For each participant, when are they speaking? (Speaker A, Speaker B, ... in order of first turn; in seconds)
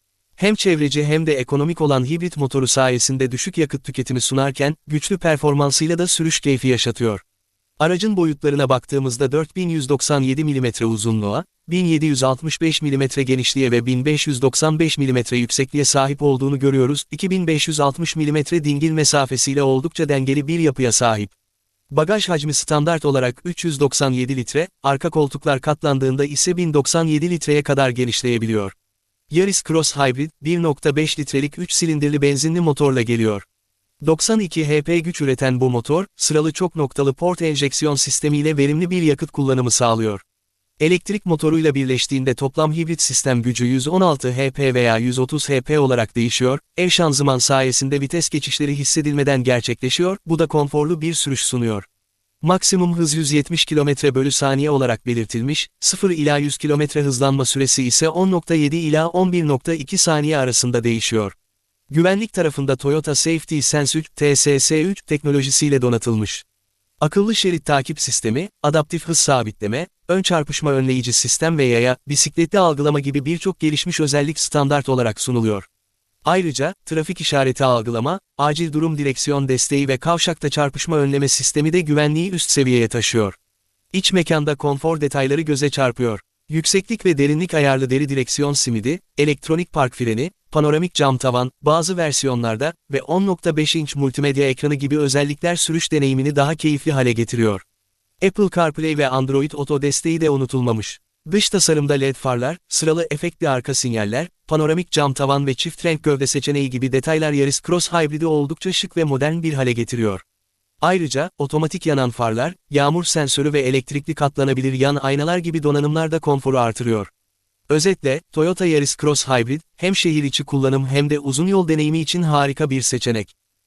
Speaker A: 0.4-7.2, 7.8-21.3, 21.9-28.7, 29.3-33.5, 34.0-40.2, 40.8-51.9, 52.4-61.3, 61.9-66.4, 67.0-75.7, 76.2-83.4, 83.9-97.6, 98.2-110.2, 110.8-117.1, 117.7-123.3